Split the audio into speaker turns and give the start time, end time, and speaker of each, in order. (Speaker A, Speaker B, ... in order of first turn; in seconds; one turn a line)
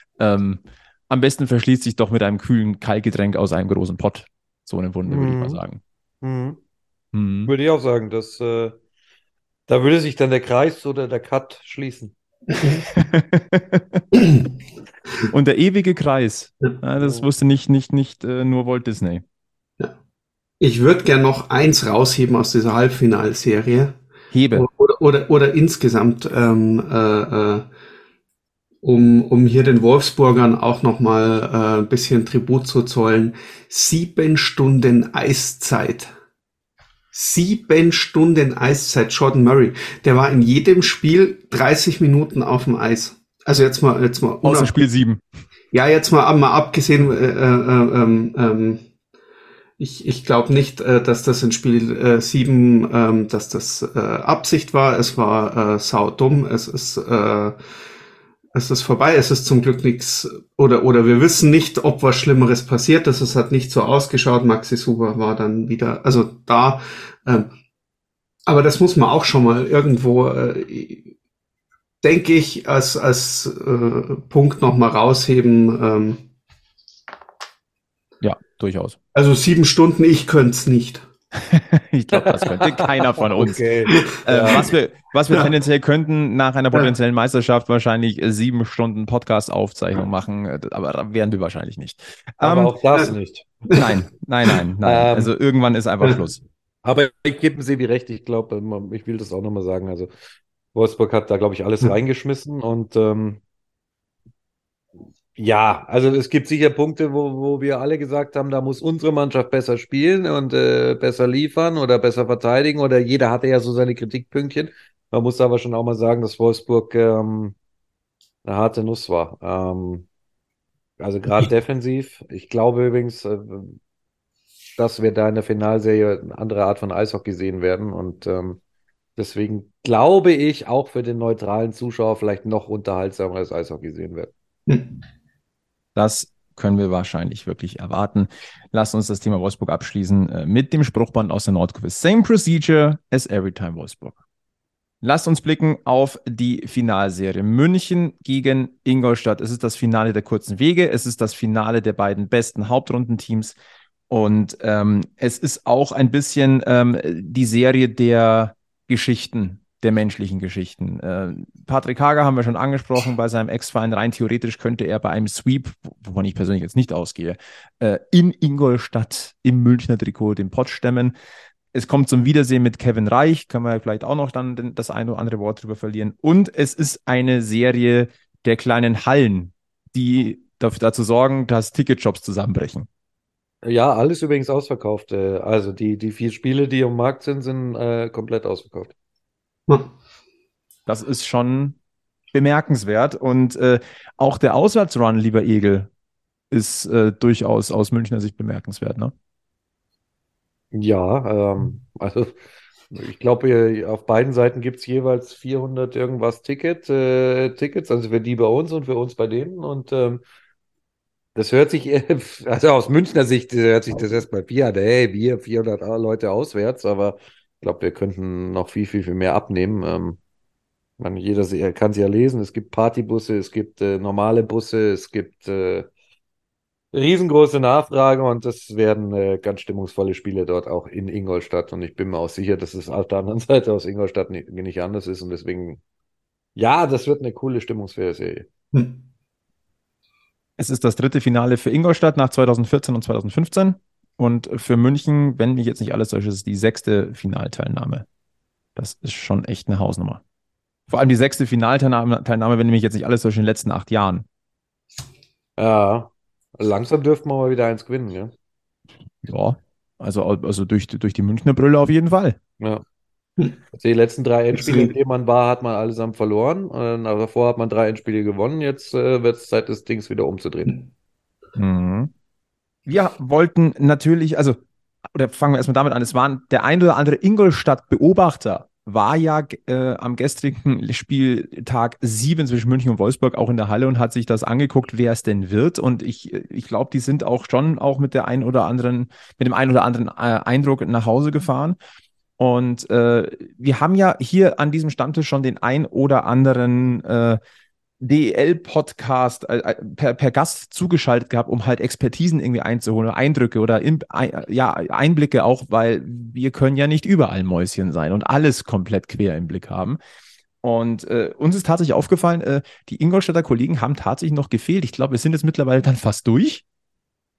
Speaker A: 0.2-5.8
Speaker B: 5.1-5.6
Speaker B: 6.2-6.6
Speaker A: 7.1-7.5
Speaker B: 7.5-8.8
Speaker B: 9.7-12.1
Speaker C: 12.5-12.8
Speaker A: 13.0-14.0
Speaker A: 15.3-19.2
Speaker C: 20.6-24.0
Speaker A: 24.3-24.6
Speaker C: 24.5-27.6
Speaker C: 28.8-36.1
Speaker C: 37.1-44.7
Speaker A: 44.4-45.2
Speaker C: 45.7-48.8
Speaker C: 49.8-57.6
Speaker C: 58.5-67.5
Speaker C: 68.5-71.1
Speaker C: 72.0-76.2
Speaker A: 78.2-79.0
Speaker C: 79.1-81.0
Speaker A: 81.5-83.6
Speaker B: 82.2-84.7
Speaker A: 84.2-92.7
Speaker B: 92.4-93.4
Speaker A: 93.7-96.4
Speaker B: 94.8-95.3
Speaker B: 96.8-100.1
Speaker B: 100.7-103.4
Speaker B: 105.4-117.5
Speaker B: 118.4-120.0
Speaker B: 121.0-123.8
Speaker B: 124.8-128.6
Speaker B: 129.2-134.3
Speaker A: 135.9-144.2
Speaker A: 145.0-153.5
Speaker A: 154.1-171.1
Speaker A: 171.7-182.9
Speaker B: 183.6-188.9
Speaker A: 190.9-191.8
Speaker A: 192.3-195.9
Speaker A: 196.5-199.1
Speaker B: 200.7-202.4
Speaker B: 202.9-210.2
Speaker B: 211.3-220.2
Speaker B: 221.0-225.9
Speaker B: 226.9-235.8
Speaker B: 236.6-238.4
Speaker C: 238.7-239.0
Speaker A: 240.6-248.0
Speaker A: 248.8-250.2
Speaker A: 250.9-254.2
Speaker B: 255.6-258.3
Speaker A: 259.2-262.4
Speaker B: 263.7-270.8
Speaker C: 264.5-264.9
Speaker A: 271.6-272.1
Speaker A: 272.9-274.6
Speaker A: 275.1-291.8
Speaker A: 292.4-297.4
Speaker A: 298.0-310.0
Speaker A: 310.6-316.6